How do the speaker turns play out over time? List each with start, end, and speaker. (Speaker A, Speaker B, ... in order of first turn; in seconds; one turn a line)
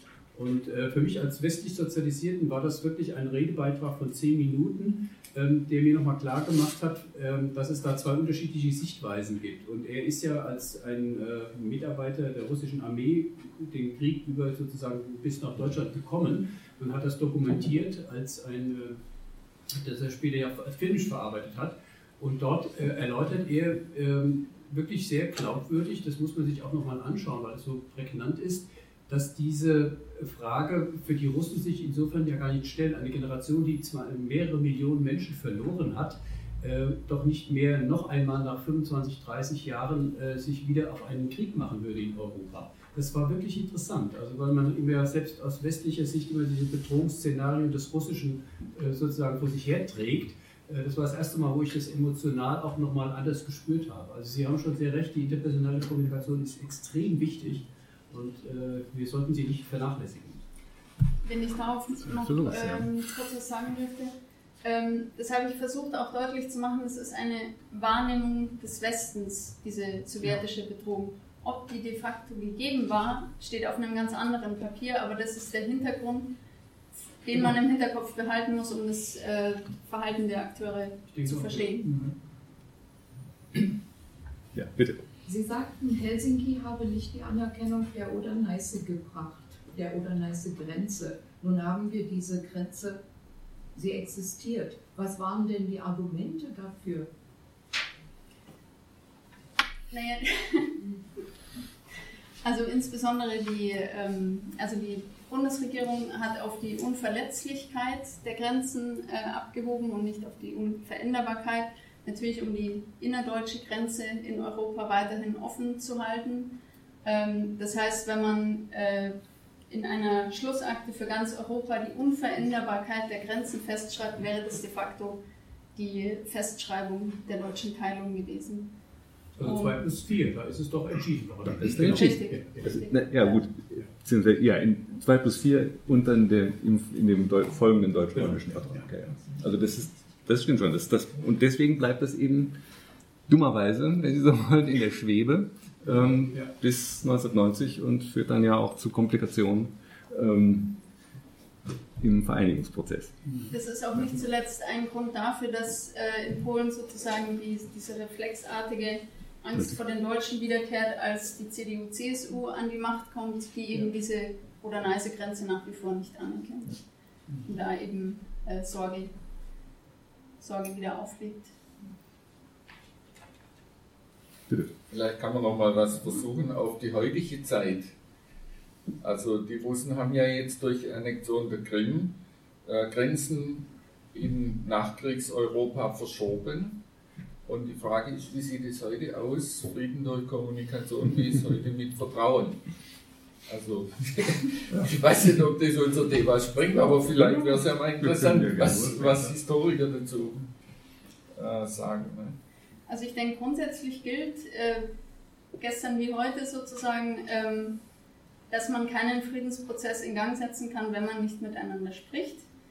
Speaker A: 0.3-19.0
Speaker A: 19.8-60.4
Speaker B: 61.2-76.3
Speaker C: 62.0-62.9
Speaker B: 77.2-81.9
Speaker A: 81.1-82.2
Speaker C: 84.5-85.0
Speaker D: 85.2-93.0
Speaker D: 93.7-97.1
Speaker B: 99.9-100.8
Speaker B: 102.4-119.2
Speaker B: 119.7-125.2
Speaker B: 125.7-128.7
Speaker A: 129.4-132.8
Speaker B: 129.4-129.8
Speaker C: 131.6-142.6
Speaker B: 131.8-133.4
Speaker A: 138.1-138.9
Speaker C: 143.3-150.8
Speaker C: 152.0-153.1
Speaker B: 153.5-166.8
Speaker B: 167.4-169.1
Speaker B: 170.4-171.5
Speaker C: 174.5-174.7
Speaker E: 174.9-177.9
Speaker E: 179.0-186.8
Speaker E: 187.4-192.6
Speaker E: 193.5-200.5
Speaker C: 197.2-197.5
Speaker C: 198.0-199.4
Speaker E: 201.3-202.3
Speaker B: 202.9-204.9
Speaker B: 205.6-207.8
Speaker B: 208.5-212.4